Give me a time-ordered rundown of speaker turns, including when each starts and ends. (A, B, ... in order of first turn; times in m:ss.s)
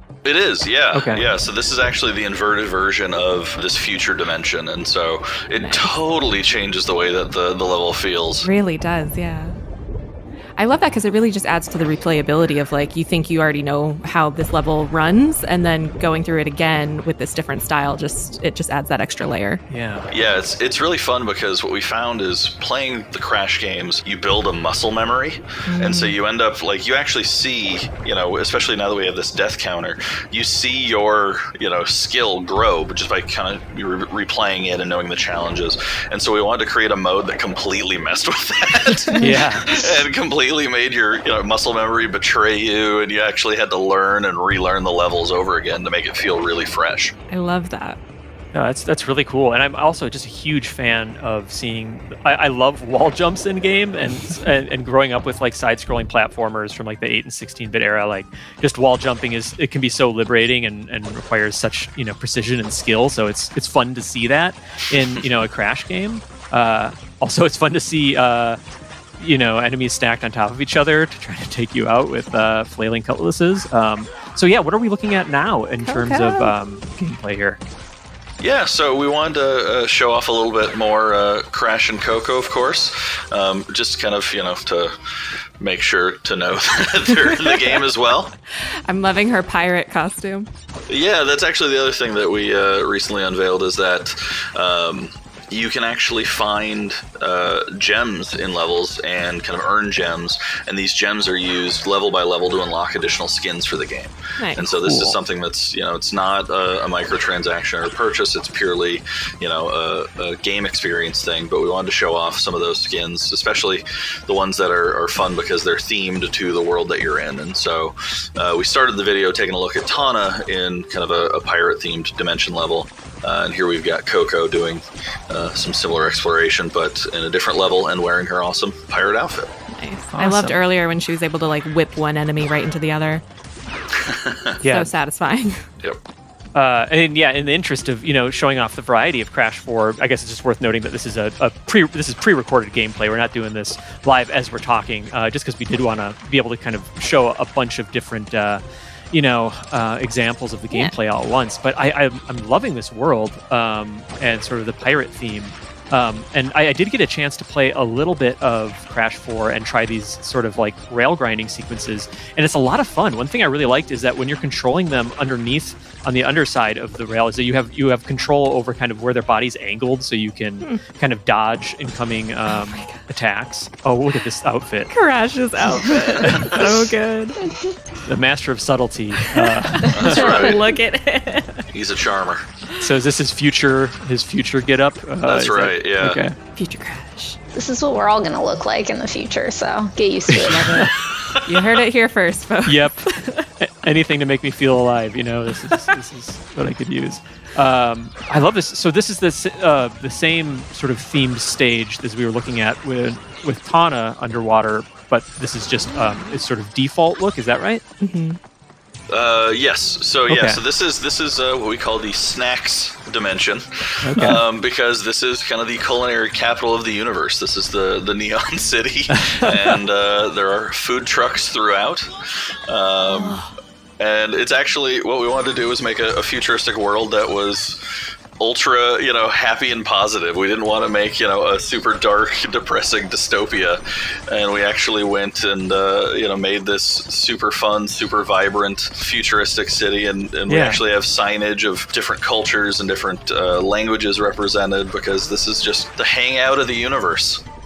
0:00.2-0:08.5 A
0:00.9-0:01.3 B
0:05.6-0:06.0 C
0:08.4-0:09.6 C
0:10.6-0:19.6 C
0:19.7-0:20.1 B
0:20.1-0:47.1 A
0:25.7-0:26.2 C
0:39.2-0:39.7 B
0:47.3-0:48.0 C
0:48.5-1:08.6 B
1:09.2-1:17.6 B
1:15.8-1:16.5 C
1:18.4-1:24.9 A
1:25.6-1:28.3 A
1:28.9-1:30.5 C
1:30.9-2:09.5 A
1:44.4-1:44.7 C
1:44.7-1:45.2 B
2:09.7-2:13.2 C
2:10.1-2:10.6 B
2:14.1-2:14.5 A
2:14.6-2:14.9 B
2:14.7-2:15.6 C
2:16.5-2:54.9 B
2:52.5-2:53.0 C
2:54.9-2:57.4 C
2:56.3-2:56.6 B
2:58.1-3:00.5 B
2:59.8-3:01.6 C
2:59.9-3:00.6 A
3:01.7-3:02.4 A
3:02.8-3:06.4 B
3:05.2-3:06.2 A
3:06.6-3:07.4 C
3:07.5-3:10.7 D
3:10.3-3:10.9 B
3:10.4-3:10.9 C
3:11.4-3:13.4 C
3:12.7-3:13.0 B
3:13.6-3:27.8 B
3:28.0-3:28.4 C
3:29.1-3:42.1 A
3:30.3-3:30.6 B
3:34.0-3:34.4 B
3:39.1-3:39.8 B
3:42.7-3:43.4 A
3:43.2-3:43.4 C
3:44.0-3:47.8 A
3:48.4-4:07.4 A
4:00.5-4:00.8 B